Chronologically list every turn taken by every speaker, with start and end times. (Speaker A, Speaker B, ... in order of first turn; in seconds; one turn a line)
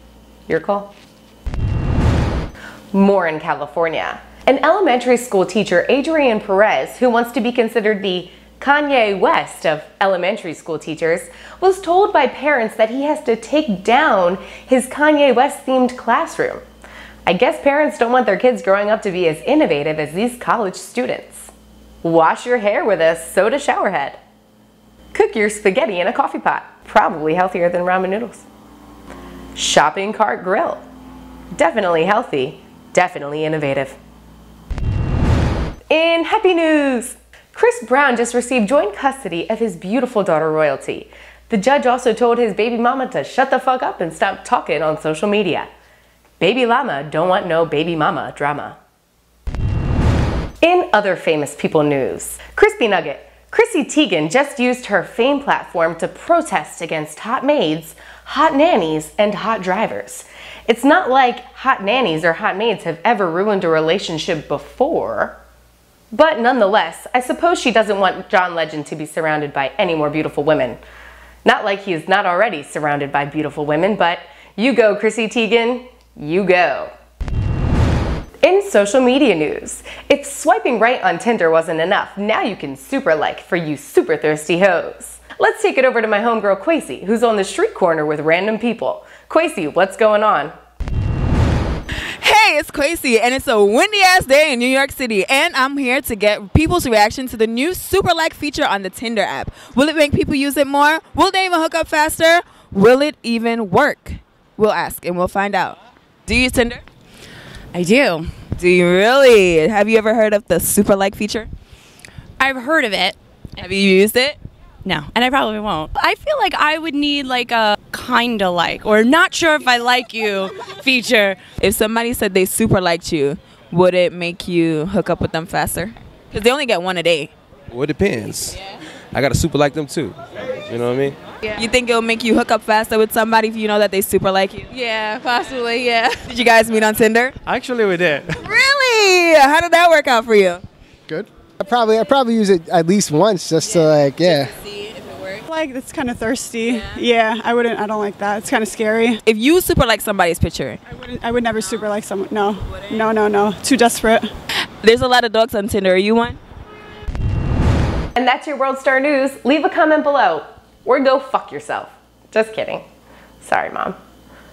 Speaker A: 0.5-0.9
Speaker A: 2.9-16.6
Speaker A: 17.2-21.5
Speaker A: 22.0-24.2
Speaker A: 25.1-28.5
Speaker A: 29.5-30.8
Speaker A: 31.5-34.0
Speaker A: 35.9-45.7
Speaker A: 46.4-48.8
Speaker A: 50.6-65.4
Speaker A: 66.1-70.8
Speaker A: 71.4-76.9
Speaker A: 78.4-90.5
Speaker B: 92.2-106.8
Speaker C: 107.7-108.3
Speaker B: 108.6-111.5
Speaker C: 112.4-113.2
Speaker B: 113.6-114.4
Speaker C: 114.8-121.4
Speaker B: 121.6-127.3
Speaker D: 127.7-128.6
Speaker D: 129.1-131.2
Speaker B: 131.5-134.7
Speaker C: 134.7-136.2
Speaker B: 136.2-137.3
Speaker D: 137.4-138.4
Speaker B: 138.4-140.6
Speaker E: 141.1-144.5
Speaker B: 144.8-145.3
Speaker F: 145.4-149.2
Speaker B: 149.2-150.8
Speaker F: 150.9-154.3
Speaker B: 154.8-156.4
Speaker A: 158.2-162.8
Speaker A: 163.4-164.0